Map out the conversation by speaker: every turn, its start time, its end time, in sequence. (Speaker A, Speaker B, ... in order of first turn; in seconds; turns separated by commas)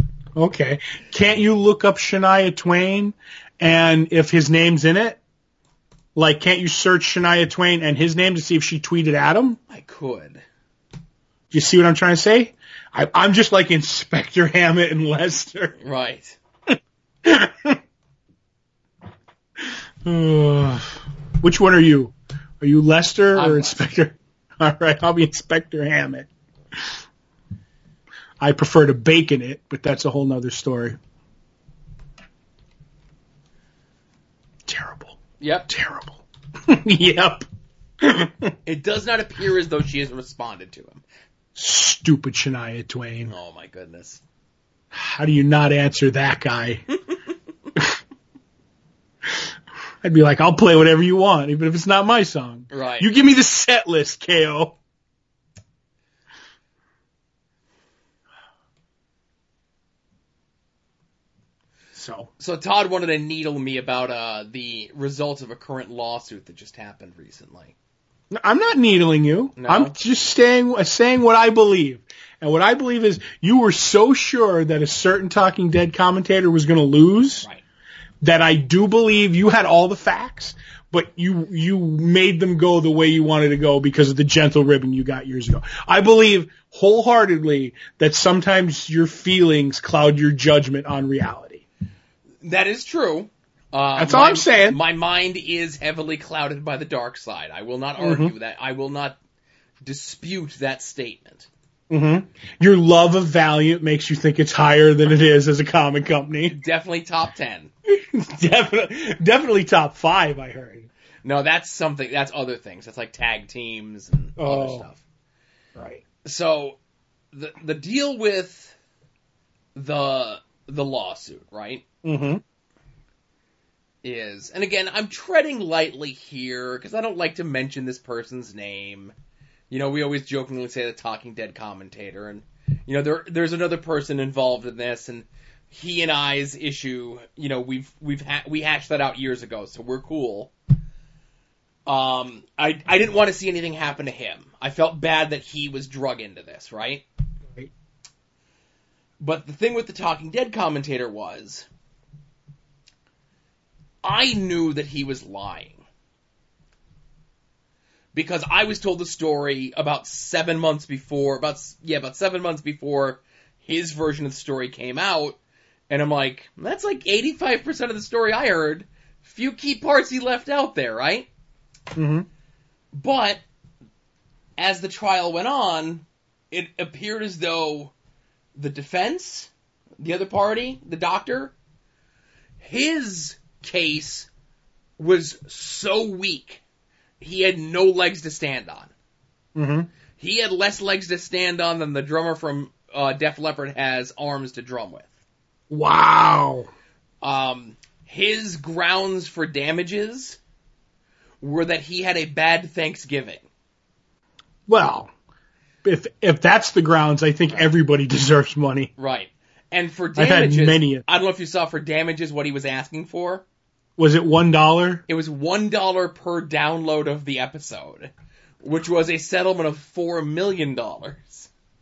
Speaker A: 0.4-5.2, Speaker A: 6.2-9.6, Speaker B: 9.7-10.4, Speaker A: 11.5-15.8, Speaker B: 15.8-16.4, Speaker A: 17.2-17.8, Speaker A: 20.1-26.8, Speaker B: 23.3-23.9, Speaker A: 28.4-31.0, Speaker A: 34.7-35.2, Speaker B: 35.4-35.7, Speaker A: 35.7-37.5, Speaker A: 38.0-38.5, Speaker B: 38.7-41.0, Speaker A: 41.6-43.3, Speaker B: 43.3-44.2, Speaker A: 44.9-46.8, Speaker A: 50.0-54.8, Speaker B: 52.7-53.1, Speaker A: 62.0-62.3, Speaker B: 62.4-67.7, Speaker A: 68.3-77.5, Speaker B: 69.6-70.0, Speaker A: 78.2-91.6, Speaker B: 92.4-99.2, Speaker A: 94.0-94.8, Speaker A: 98.0-98.3, Speaker B: 99.8-101.5, Speaker A: 101.9-106.6, Speaker B: 106.5-107.7, Speaker A: 107.9-110.9, Speaker B: 111.2-115.0, Speaker A: 114.4-114.9, Speaker A: 115.8-116.0, Speaker B: 116.2-116.8, Speaker B: 117.3-118.8, Speaker B: 119.8-121.8, Speaker A: 122.0-122.4, Speaker B: 124.0-129.1, Speaker B: 129.7-140.5, Speaker B: 141.9-147.0, Speaker B: 149.2-151.7, Speaker B: 154.0-155.8, Speaker B: 158.1-165.4, Speaker B: 165.9-171.3, Speaker A: 171.9-172.3, Speaker B: 172.9-173.4, Speaker B: 174.6-177.9, Speaker B: 178.6-181.5, Speaker B: 182.6-184.3, Speaker B: 185.0-186.6, Speaker B: 187.2-188.9, Speaker A: 189.6-189.9, Speaker B: 190.2-195.1, Speaker A: 195.7-196.7, Speaker B: 197.2-200.4, Speaker B: 201.4-203.4, Speaker A: 204.7-205.1, Speaker A: 205.8-208.9, Speaker B: 209.0-213.4, Speaker A: 210.2-211.1, Speaker A: 214.0-215.0, Speaker B: 215.1-221.5